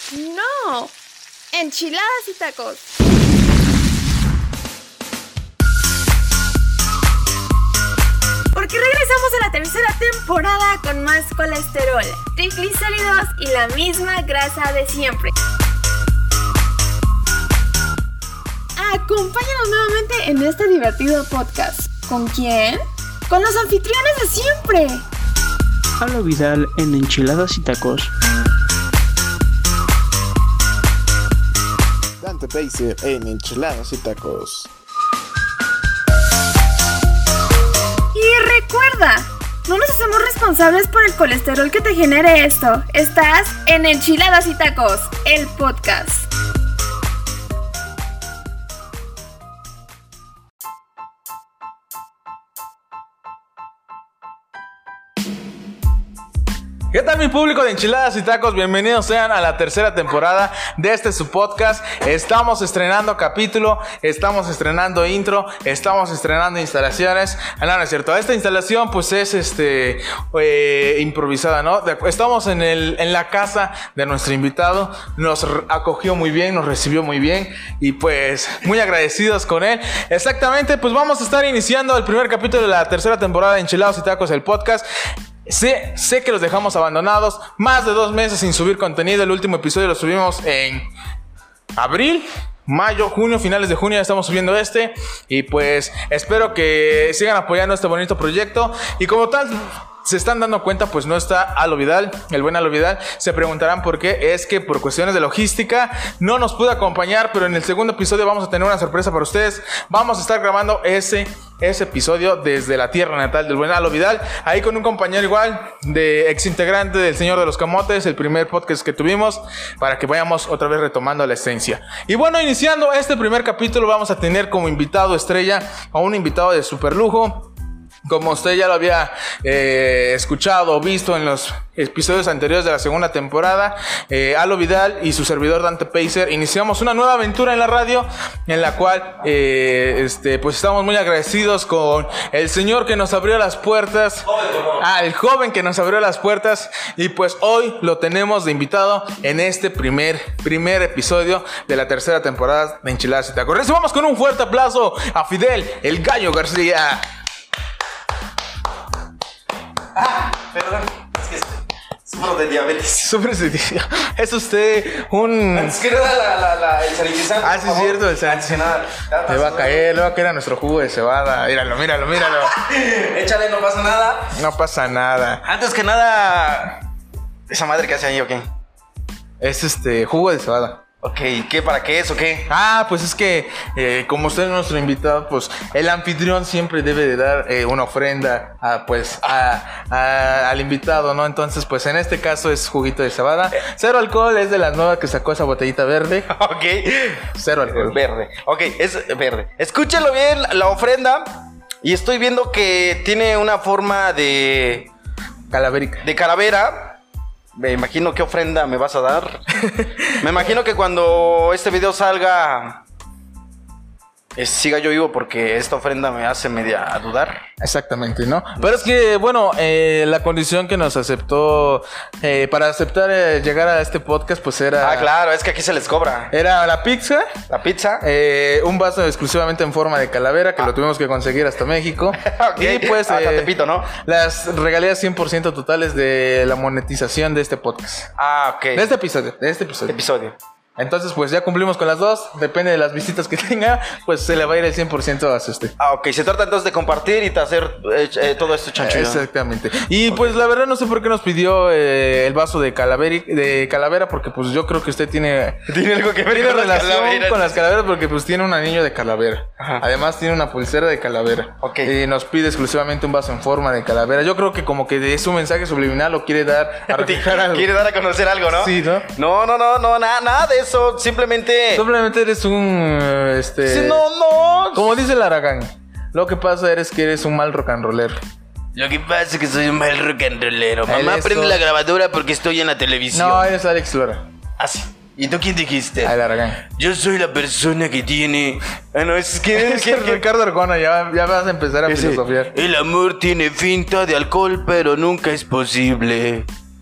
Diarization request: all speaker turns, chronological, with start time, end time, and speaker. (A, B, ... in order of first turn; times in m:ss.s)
0:00.1-0:00.9 A
0:01.5-0:02.9 A
0:08.5-0:15.3 A
0:18.8-0:25.0 A
0:26.0-0:28.1 B
0:32.2-0:34.7 C
0:38.1-0:46.3 A
0:56.9-1:24.9 D
1:25.4-1:30.9 D
1:31.8-2:07.5 D
2:08.0-2:37.1 D
2:40.0-2:43.1 E
2:43.0-2:45.8 D
2:45.5-2:49.9 E
2:47.4-2:48.8 D
2:49.3-2:52.5 D
2:52.4-2:54.4 E
2:54.3-2:55.4 D
2:55.4-2:56.8 E
2:57.5-2:58.5 E
2:59.4-3:00.8 D
3:01.0-3:02.5 E
3:02.5-3:16.3 D
3:16.3-3:24.9 E
3:17.3-3:18.0 D
3:25.5-3:26.0 D
3:26.0-3:27.0 E
3:27.6-3:29.4 E
3:29.7-3:30.0 D
3:30.2-3:32.8 E
3:34.4-3:37.4 E
3:37.6-3:45.1 D
3:44.8-3:46.4 E
3:46.3-3:47.3 D
3:47.5-3:48.1 E
3:48.0-3:58.1 D
3:52.2-3:53.9 E
3:58.2-3:58.9 E
3:58.8-4:00.0 D
3:59.9-4:00.4 E
4:00.8-4:05.7 D
4:05.8-4:09.3 E
4:08.8-4:15.7 D
4:15.7-4:17.6 E
4:16.3-4:27.7 D
4:19.6-4:19.8 E
4:21.6-4:21.9 E
4:26.9-4:31.9 E
4:28.5-4:29.1 D
4:31.7-4:34.0 D
4:33.6-4:35.0 E
4:34.7-4:38.2 D
4:38.8-4:43.5 E
4:40.9-4:41.6 D
4:43.1-4:44.3 D
4:44.6-4:46.1 E
4:46.0-4:46.6 D
4:46.8-4:50.2 E
4:49.5-4:52.5 D
4:51.9-4:56.5 E